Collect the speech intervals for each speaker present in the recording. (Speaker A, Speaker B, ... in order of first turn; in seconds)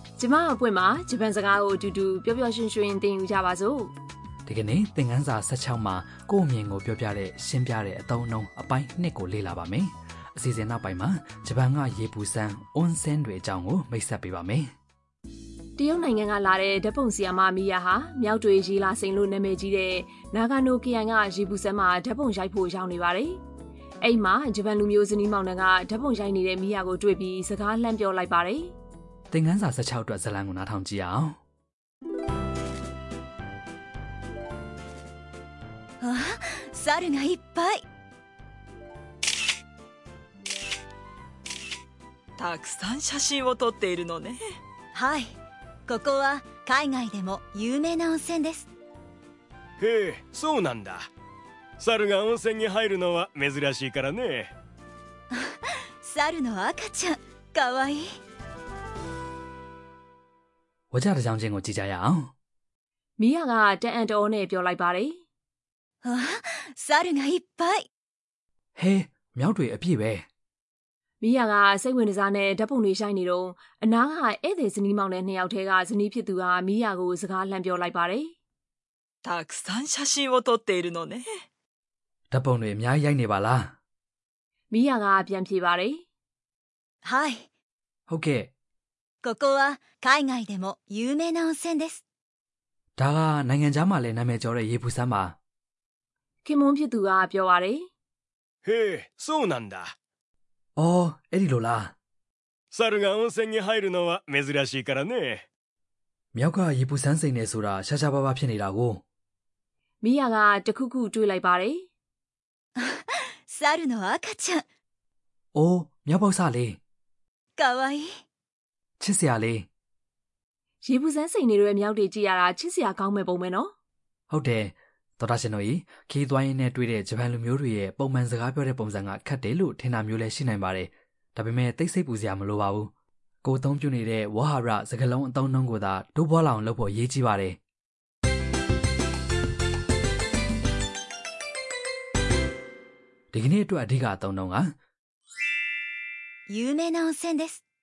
Speaker A: 0.2-3.9, 15.8-23.4, 24.0-28.7, 63.2-65.2, 71.2-78.3, 84.7-86.0, 96.5-97.9, 110.0-111.9, 120.8-123.7
Speaker B: 4.5-14.7, 29.3-31.4, 60.9-62.3, 68.8-70.3, 82.3-83.8, 88.1-88.5, 93.0-95.4, 100.8-102.0, 106.3-109.0, 115.5-116.8, 119.0-119.7, 124.3-132.9, 133.4-137.6, 143.3-144.7
Speaker C: 36.0-37.8, 44.9-48.7, 55.3-58.1, 66.0-67.8, 87.0-87.5, 89.2-92.0, 112.8-114.6, 117.6-118.2, 146.5-147.6
Speaker D: 42.4-44.4, 79.2-81.3
Speaker E: 49.8-51.1, 51.8-54.5, 98.7-99.9, 102.7-105.5